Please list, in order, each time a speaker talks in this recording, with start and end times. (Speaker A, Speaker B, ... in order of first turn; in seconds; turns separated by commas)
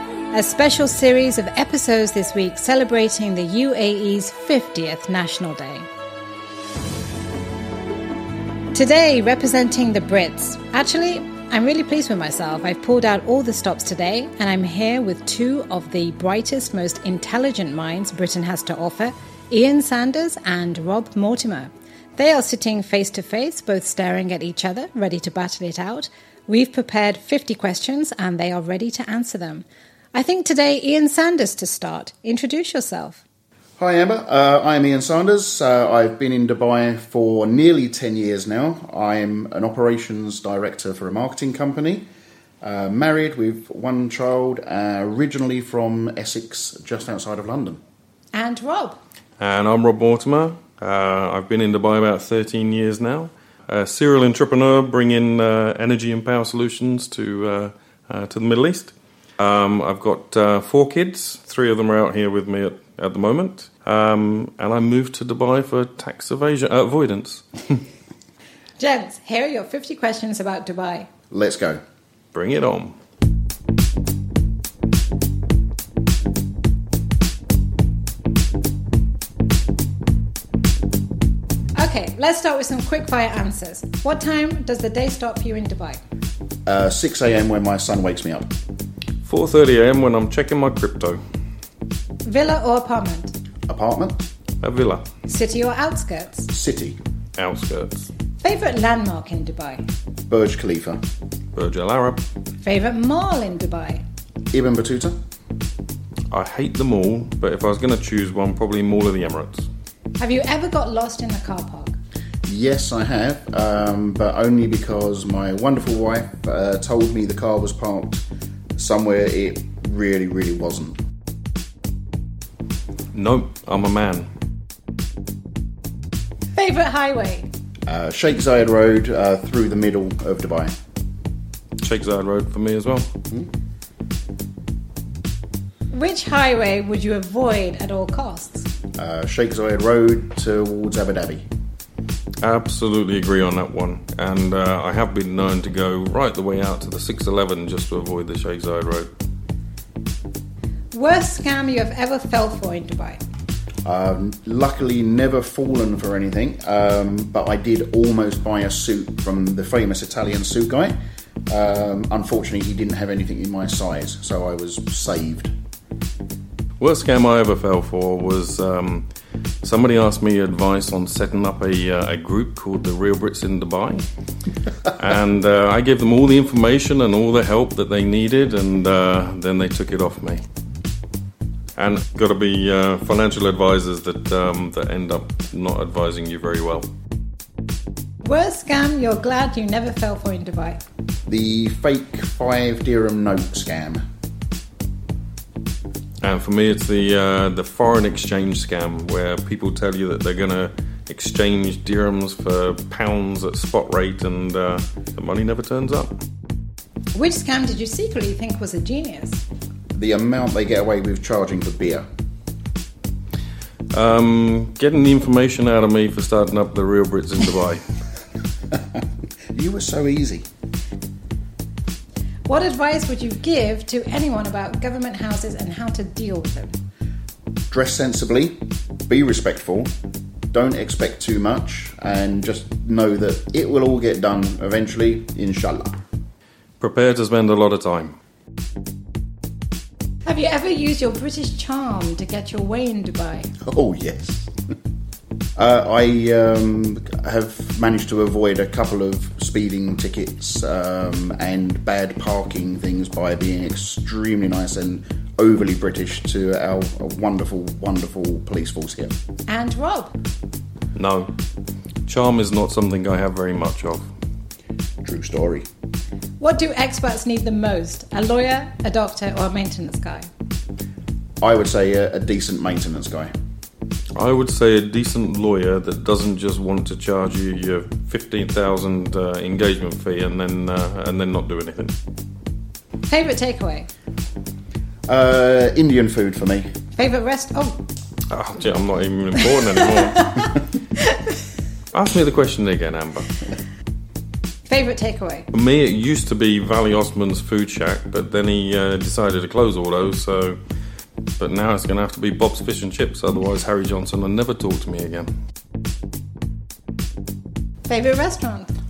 Speaker A: 0.3-5.9, Speaker A: 8.7-33.2, Speaker B: 33.8-42.0, Speaker B: 42.6-47.8, Speaker A: 48.3-49.0, Speaker C: 49.4-67.8, Speaker A: 68.8-71.1, Speaker B: 71.3-71.8, Speaker C: 72.3-73.0, Speaker A: 81.8-86.0, Speaker B: 86.7-88.5, Speaker C: 89.2-91.2, Speaker A: 92.2-93.3, Speaker B: 93.7-94.3, Speaker C: 94.6-95.0, Speaker A: 95.3-96.5, Speaker B: 96.5-97.0, Speaker C: 97.4-98.1, Speaker A: 98.4-99.8, Speaker B: 100.3-101.0, Speaker C: 101.5-102.2, Speaker A: 102.6-104.0, Speaker B: 104.5-105.1, Speaker C: 106.3-109.7, Speaker A: 110.2-111.9, Speaker B: 112.5-118.2, Speaker B: 118.8-121.0, Speaker C: 123.1-124.3, Speaker A: 126.5-127.5, Speaker B: 127.9-130.7, Speaker C: 131.8-133.1, Speaker A: 135.9-138.7, Speaker B: 139.0-141.4, Speaker C: 142.4-149.1, Speaker A: 150.9-153.2, Speaker B: 153.8-160.9, Speaker B: 161.5-165.5, Speaker C: 166.8-169.1, Speaker C: 169.6-174.0, Speaker C: 174.9-180.4, Speaker C: 181.8-186.9, Speaker A: 188.2-190.8, Speaker B: 191.3-194.0, Speaker C: 196.2-206.2, Speaker A: 207.1-209.4, Speaker B: 209.9-212.0, Speaker C: 213.9-217.8, Speaker B: 219.5-220.4, Speaker A: 222.5-226.7, Speaker B: 227.7-229.9, Speaker B: 230.5-236.0, Speaker C: 236.8-238.2, Speaker A: 240.2-243.5, Speaker B: 243.6-244.5, Speaker B: 245.6-259.1, Speaker A: 259.5-260.1, Speaker C: 260.9-261.3, Speaker C: 262.1-264.0, Speaker B: 265.0-265.6, Speaker A: 266.4-270.2, Speaker B: 271.4-273.3, Speaker C: 274.1-281.9, Speaker A: 283.1-283.9, Speaker B: 285.1-286.7, Speaker A: 286.9-287.9, Speaker C: 288.3-290.5, Speaker A: 290.0-290.5, Speaker C: 291.9-293.4, Speaker A: 294.7-295.5, Speaker C: 295.5-300.6, Speaker C: 301.4-305.3, Speaker A: 307.9-308.7